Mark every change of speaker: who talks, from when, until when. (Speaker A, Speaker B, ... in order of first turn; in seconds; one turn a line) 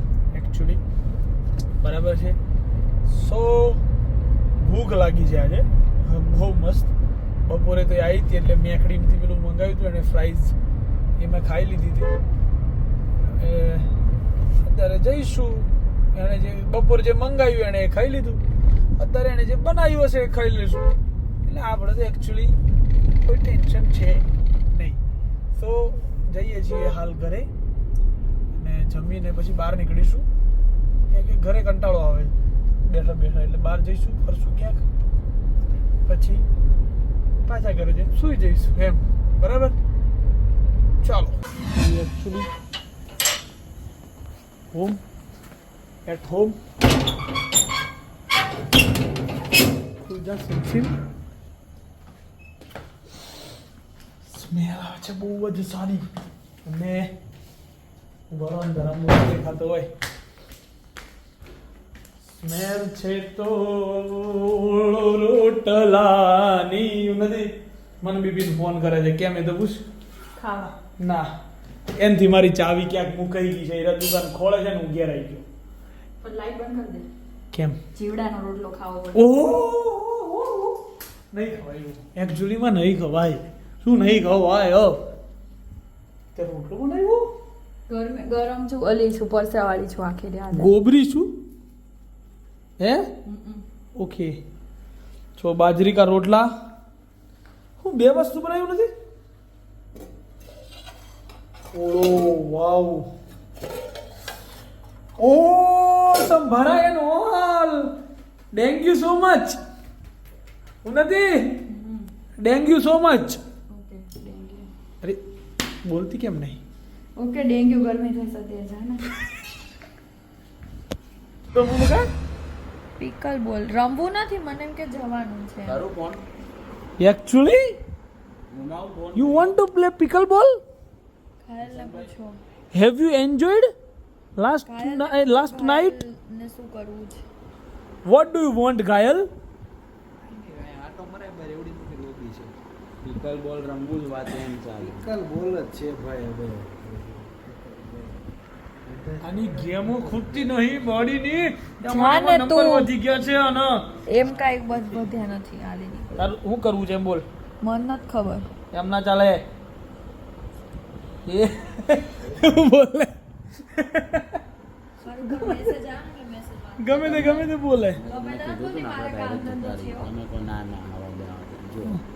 Speaker A: 0.3-0.8
Speaker A: 1.8-2.4
Speaker A: 3.0-3.8
Speaker A: 4.6-6.9
Speaker A: 7.4-10.5
Speaker A: 11.2-12.1
Speaker A: 13.2-13.9
Speaker A: 14.6-18.4
Speaker A: 18.9-22.6
Speaker A: 23.2-25.0
Speaker A: 25.5-27.5
Speaker A: 28.5-30.2
Speaker A: 31.1-34.8
Speaker A: 36.0-36.4
Speaker A: 37.5-39.8
Speaker A: 41.0-42.5
Speaker A: 44.7-45.0
Speaker A: 46.0-46.6
Speaker A: 50.0-50.9
Speaker A: 54.3-56.1
Speaker A: 56.6-57.1
Speaker A: 58.3-59.9
Speaker A: 62.4-67.5
Speaker A: 68.0-69.8
Speaker B: 70.3-70.8
Speaker A: 71.0-71.3
Speaker A: 72.0-75.4
Speaker B: 76.2-77.1
Speaker A: 77.5-77.8
Speaker B: 77.9-79.2
Speaker A: 79.1-80.8
Speaker A: 81.3-85.0
Speaker A: 86.3-87.3
Speaker B: 87.9-90.7
Speaker A: 90.5-91.3
Speaker A: 92.8-93.1
Speaker B: 93.2-93.6
Speaker A: 94.0-94.4
Speaker A: 95.4-96.5
Speaker A: 97.8-98.9
Speaker A: 101.7-103.1
Speaker A: 105.2-107.9
Speaker A: 108.5-109.6
Speaker A: 110.8-111.6
Speaker B: 111.7-112.1
Speaker A: 112.4-113.4
Speaker B: 113.7-114.7
Speaker A: 115.8-116.6
Speaker B: 117.2-119.1
Speaker A: 121.5-122.0
Speaker B: 123.0-125.8
Speaker C: 125.7-126.2
Speaker A: 127.0-127.8
Speaker C: 128.5-129.5
Speaker A: 129.1-130.6
Speaker B: 131.4-132.4
Speaker D: 131.6-132.1
Speaker A: 132.7-133.7
Speaker A: 134.4-135.9
Speaker B: 134.7-137.2
Speaker A: 138.0-139.3
Speaker D: 140.2-142.6
Speaker C: 143.0-145.0
Speaker D: 144.8-148.2
Speaker D: 148.8-150.5
Speaker A: 149.2-153.9
Speaker B: 151.8-152.9
Speaker B: 154.1-156.3
Speaker A: 156.2-157.2
Speaker B: 157.6-158.5
Speaker A: 158.7-159.4
Speaker A: 161.2-163.1
Speaker A: 163.7-164.4
Speaker B: 165.0-167.5
Speaker A: 165.2-165.6
Speaker A: 166.8-168.0
Speaker C: 168.0-172.0
Speaker B: 168.1-170.1